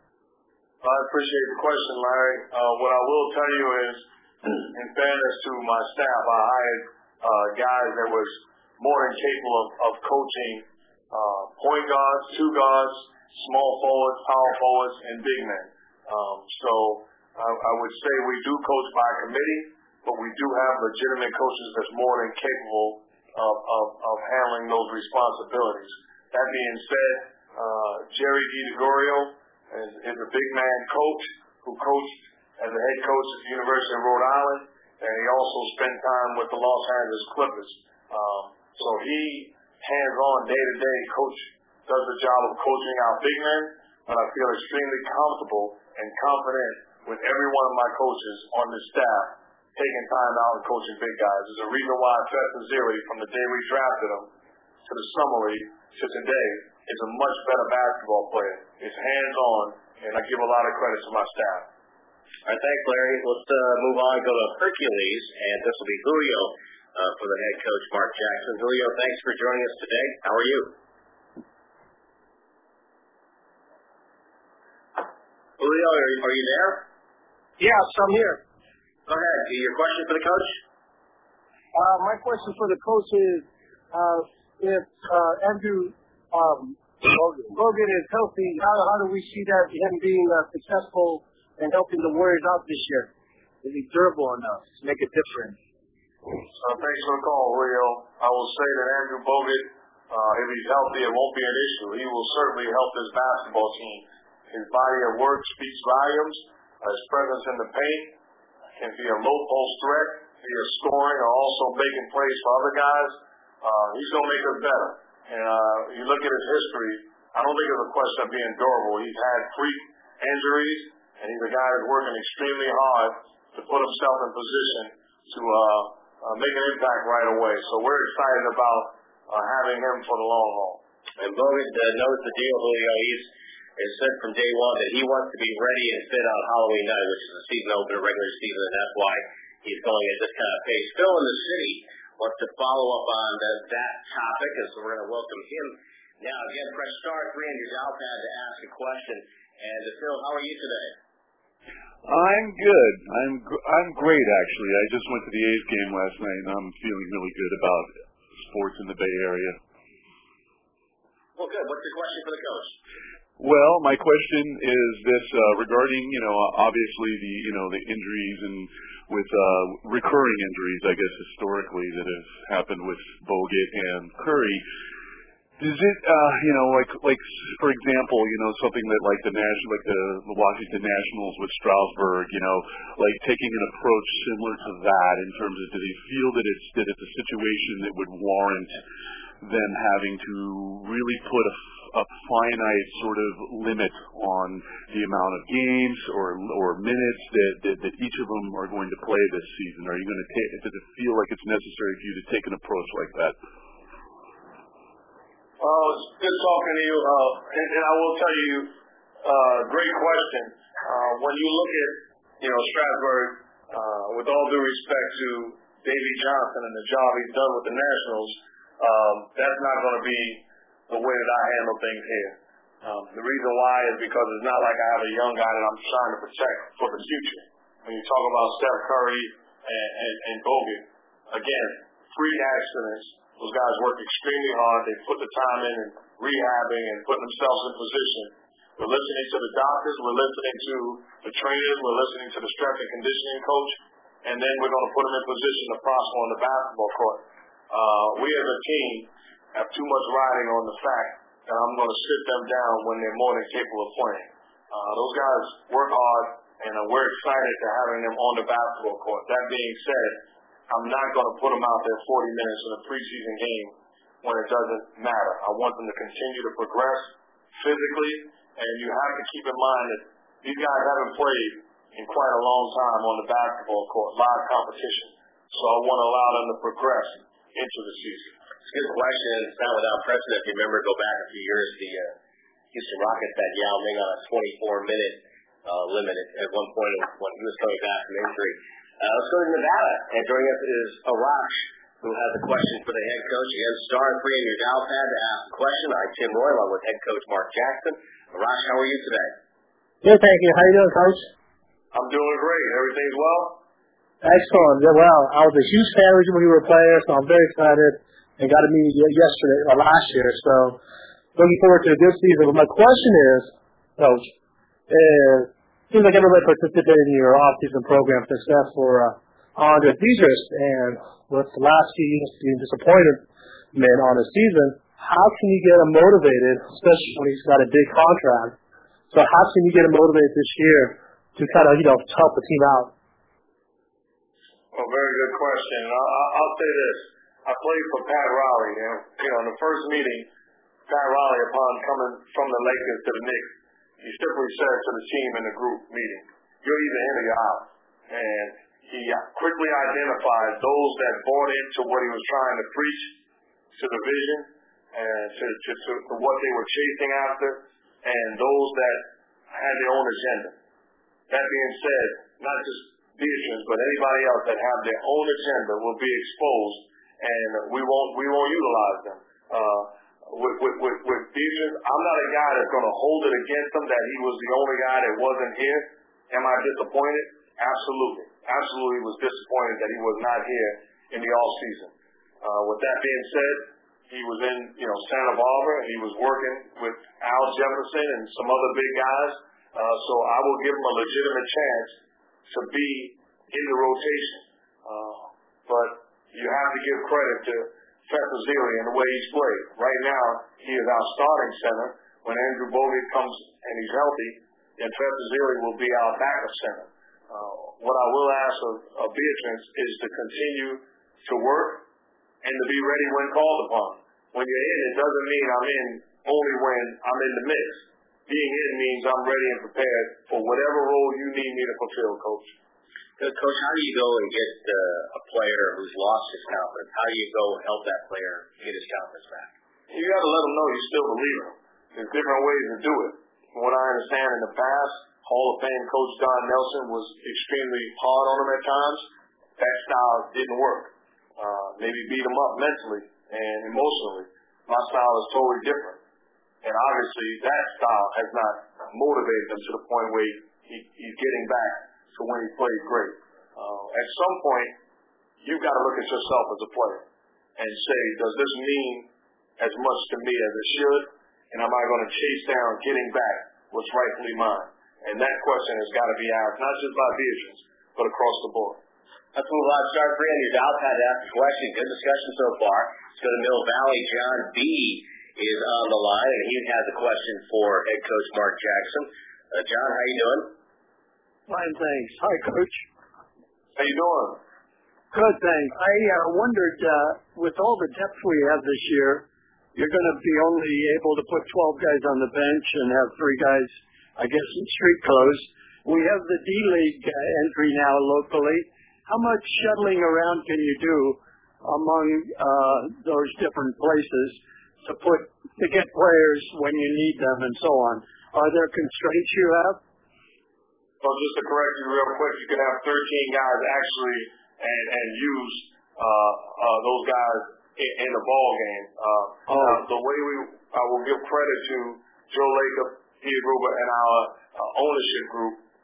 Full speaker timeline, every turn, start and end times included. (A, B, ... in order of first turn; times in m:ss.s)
0:00.8-0:04.0 A
0:04.7-0:54.3 A
0:54.8-1:01.7 A
1:02.5-1:10.7 B
1:15.6-1:16.8 B
1:17.6-1:18.4 C
1:19.1-1:20.6 B
1:21.7-1:33.1 C
1:33.6-1:35.6 C
1:36.6-1:48.2 A
1:48.8-2:10.8 A
2:11.2-2:31.0 B
2:32.0-2:37.9 D
2:38.5-2:39.6 D
2:41.4-2:42.8 B
2:43.4-2:54.6 D
2:55.6-3:08.8 D
3:09.4-3:23.4 D
3:25.6-4:38.3 A
4:38.7-4:42.2 B
4:42.7-4:59.3 B
5:00.0-5:01.3 E
5:01.9-5:03.6 A
5:04.2-5:10.8 E
5:11.4-5:14.3 E
5:14.9-5:28.6 E
5:29.1-5:32.9 E
5:34.7-5:40.3 A
5:40.9-5:53.1 A
5:53.7-6:00.6 A
6:01.3-6:51.8 A
6:52.4-7:02.5 A
7:03.2-7:09.5 B
7:09.9-7:26.0 A
7:26.6-7:34.8 A
7:35.4-7:37.0 A
7:37.6-7:48.8 A
7:49.3-8:00.5 B
8:01.5-8:02.8 F
8:03.8-8:04.4 A
8:05.1-8:29.8 F
8:31.0-8:45.6 A
8:39.5-8:39.8 F